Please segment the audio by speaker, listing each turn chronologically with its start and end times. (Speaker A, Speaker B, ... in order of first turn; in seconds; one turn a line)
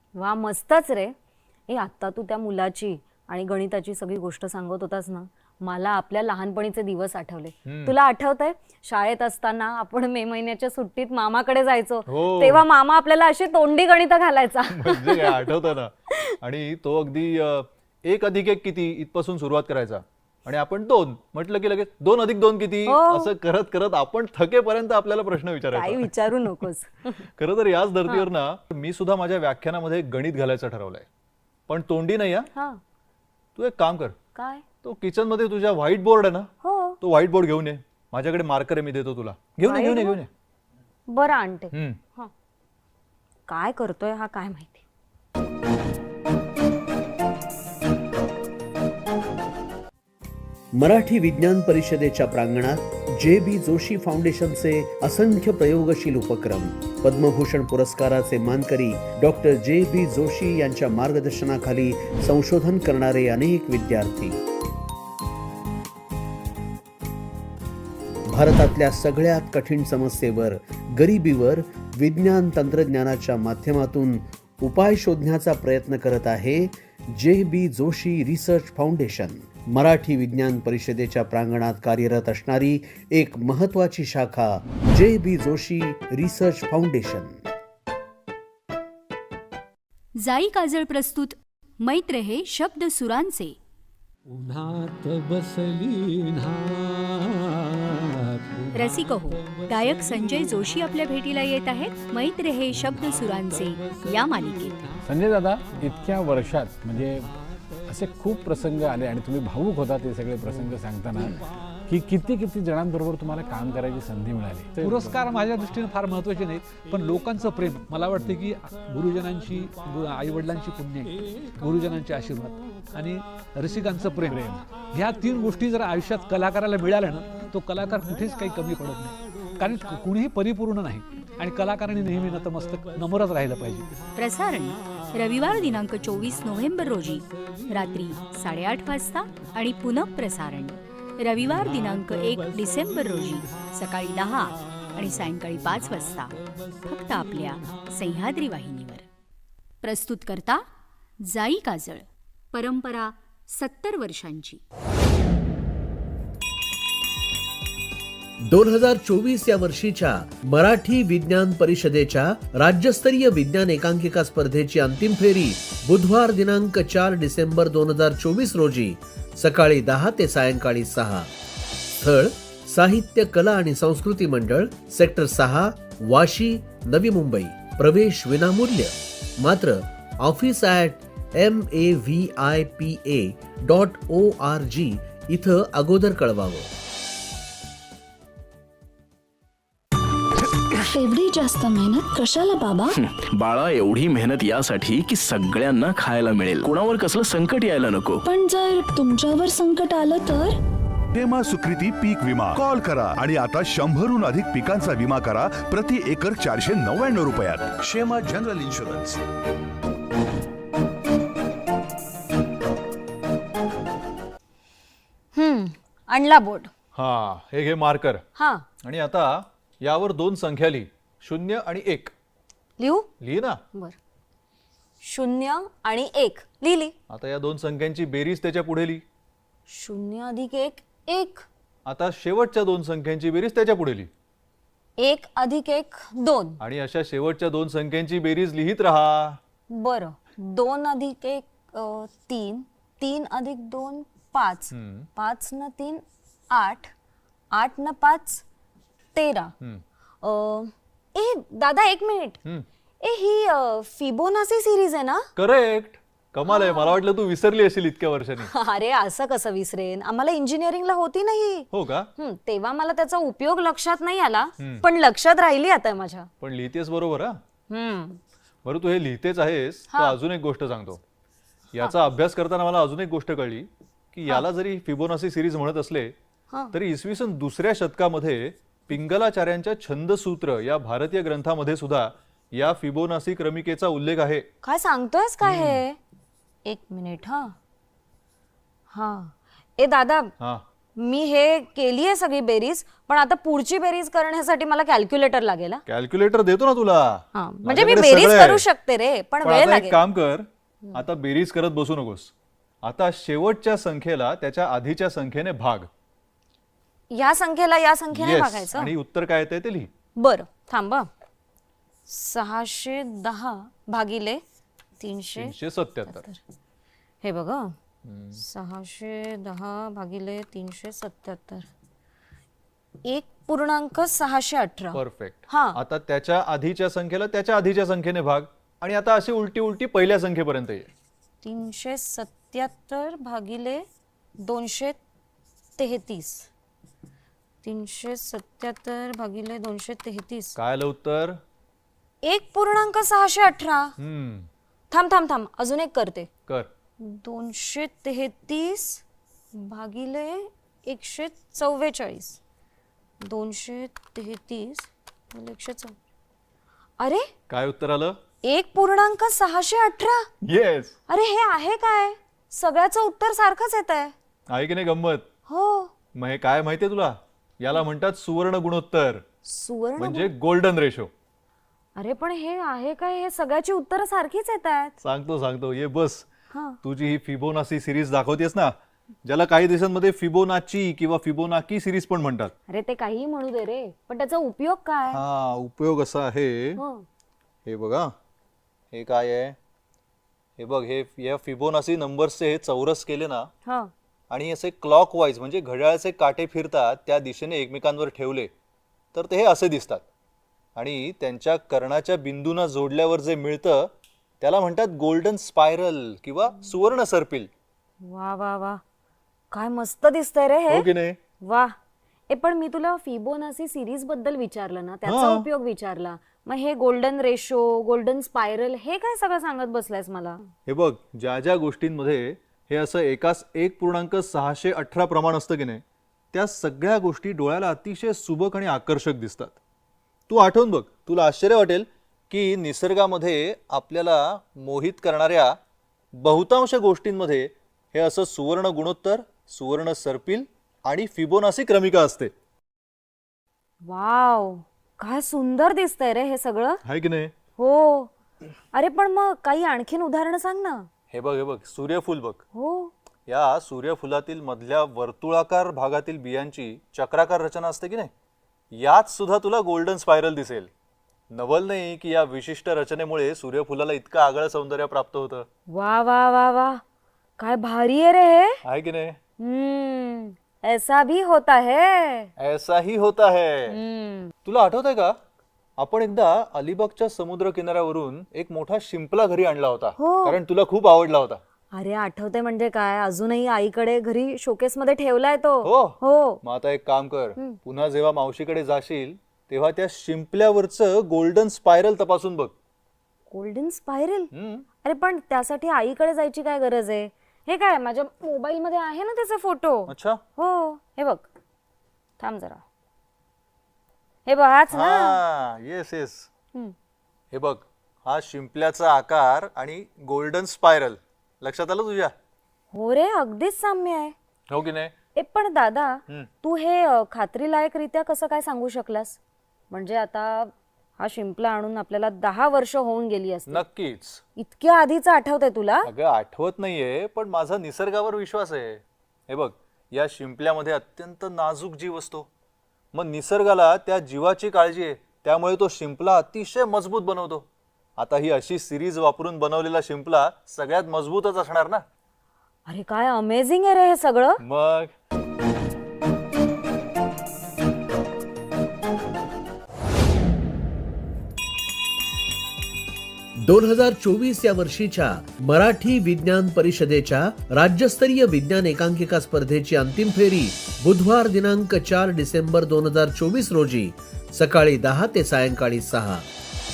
Speaker A: 0.2-1.1
Speaker A: 1.7-15.5
Speaker B: 7.7-8.0
Speaker B: 12.1-12.6
Speaker B: 14.7-26.1
Speaker A: 22.9-23.3
Speaker A: 25.8-27.2
Speaker B: 27.4-31.1
Speaker B: 31.7-32.5
Speaker A: 32.5-32.8
Speaker B: 33.6-34.1
Speaker A: 34.4-34.6
Speaker B: 34.8-40.3
Speaker A: 36.6-37.0
Speaker A: 39.7-40.2
Speaker A: 41.1-42.3
Speaker B: 41.7-42.0
Speaker A: 43.5-44.8
Speaker C: 50.7-64.4
Speaker C: 68.3-87.4
Speaker D: 90.2-93.6
Speaker E: 94.3-99.7
Speaker D: 98.7-104.8
Speaker F: 105.1-107.3
Speaker F: 107.9-115.3
Speaker E: 114.8-133.9
Speaker F: 124.2-124.6
Speaker D: 134.2-146.3
Speaker D: 146.9-149.1
Speaker D: 149.8-150.6
Speaker D: 151.2-154.6
Speaker C: 158.4-171.3
Speaker C: 172.0-186.7
Speaker G: 190.8-193.0
Speaker H: 193.3-198.0
Speaker G: 198.2-200.6
Speaker I: 201.1-209.2
Speaker A: 215.3-216.7
Speaker B: 216.9-218.2
Speaker A: 218.4-218.7
Speaker B: 218.8-222.1
Speaker A: 222.8-223.1
Speaker B: 223.2-223.6
Speaker A: 225.0-226.9
Speaker B: 227.1-229.0
Speaker A: 229.7-231.5
Speaker B: 231.9-234.1
Speaker A: 235.0-236.6
Speaker B: 236.6-239.4
Speaker A: 239.7-246.9
Speaker B: 244.7-245.1
Speaker A: 247.5-248.4
Speaker A: 249.1-249.5
Speaker A: 250.2-252.4
Speaker A: 253.0-255.3
Speaker B: 255.4-258.5
Speaker A: 256.5-257.0
Speaker A: 258.5-266.3
Speaker B: 261.7-262.1
Speaker B: 264.6-264.9
Speaker B: 266.4-267.4
Speaker A: 267.7-268.2
Speaker B: 268.6-271.0
Speaker B: 271.7-276.1
Speaker B: 276.7-284.5
Speaker A: 284.6-286.0
Speaker B: 285.4-285.8
Speaker A: 286.7-287.6
Speaker A: 288.9-290.3
Speaker A: 291.0-295.8
Speaker B: 295.9-298.6
Speaker A: 297.4-300.0
Speaker B: 299.4-305.9
Speaker A: 307.1-308.9
Speaker B: 308.1-309.9
Speaker A: 310.2-311.1
Speaker A: 312.1-314.4
Speaker A: 315.0-315.5
Speaker B: 315.4-316.2
Speaker A: 316.1-316.4
Speaker A: 317.2-317.8
Speaker B: 318.1-318.4
Speaker A: 318.4-321.7
Speaker A: 323.1-325.8
Speaker B: 324.9-330.9
Speaker A: 331.4-333.9
Speaker A: 334.4-335.0
Speaker A: 335.8-336.5
Speaker A: 337.6-340.6
Speaker B: 340.6-341.4
Speaker A: 342.2-343.9
Speaker B: 344.0-344.5
Speaker A: 344.9-346.3
Speaker A: 347.0-352.4
Speaker A: 353.2-356.0
Speaker A: 357.0-357.3
Speaker B: 357.5-358.2
Speaker A: 358.4-360.3
Speaker B: 360.4-361.0
Speaker A: 361.1-364.1
Speaker B: 364.5-365.3
Speaker A: 365.5-365.9
Speaker B: 366.1-369.2
Speaker A: 369.5-370.3
Speaker B: 370.0-371.1
Speaker A: 372.0-375.0
Speaker B: 375.0-376.3
Speaker A: 376.5-376.8
Speaker B: 376.8-378.7
Speaker B: 379.2-382.5
Speaker A: 382.7-385.2
Speaker B: 385.1-386.8
Speaker A: 386.8-387.1
Speaker B: 387.7-388.1
Speaker B: 388.9-389.6
Speaker B: 390.6-393.5
Speaker A: 393.7-393.9
Speaker B: 394.3-398.5
Speaker B: 399.1-400.0
Speaker B: 400.8-407.5
Speaker A: 408.0-408.8
Speaker A: 409.5-410.9
Speaker B: 410.7-411.2
Speaker A: 411.4-411.7
Speaker A: 412.3-420.4
Speaker B: 415.1-415.5
Speaker B: 420.7-425.8
Speaker B: 426.3-429.6
Speaker B: 430.3-435.6
Speaker B: 436.2-442.3
Speaker A: 443.8-446.8
Speaker B: 446.9-447.3
Speaker A: 447.6-448.1
Speaker A: 448.7-450.9
Speaker B: 451.1-452.4
Speaker A: 452.6-452.9
Speaker B: 453.3-458.1
Speaker B: 458.7-460.7
Speaker B: 461.3-465.5
Speaker A: 465.7-466.8
Speaker A: 467.4-468.6
Speaker B: 468.6-469.2
Speaker A: 469.4-472.3
Speaker B: 472.4-473.8
Speaker A: 473.7-474.3
Speaker B: 474.4-475.2
Speaker B: 475.8-481.4
Speaker A: 480.0-480.4
Speaker A: 481.7-486.4
Speaker B: 485.6-492.5
Speaker A: 493.3-494.3
Speaker B: 494.3-494.6
Speaker A: 494.8-501.3
Speaker B: 499.9-500.2
Speaker A: 502.2-502.6
Speaker A: 504.3-505.2
Speaker B: 504.7-506.3
Speaker B: 507.3-512.1
Speaker A: 512.7-514.1
Speaker B: 514.5-514.9
Speaker A: 515.2-519.2
Speaker A: 519.7-523.6
Speaker B: 523.5-524.2
Speaker A: 524.4-525.9
Speaker B: 525.9-532.3
Speaker B: 532.9-537.5
Speaker B: 538.0-541.8
Speaker A: 542.7-544.4
Speaker B: 544.4-544.9
Speaker C: 553.4-566.3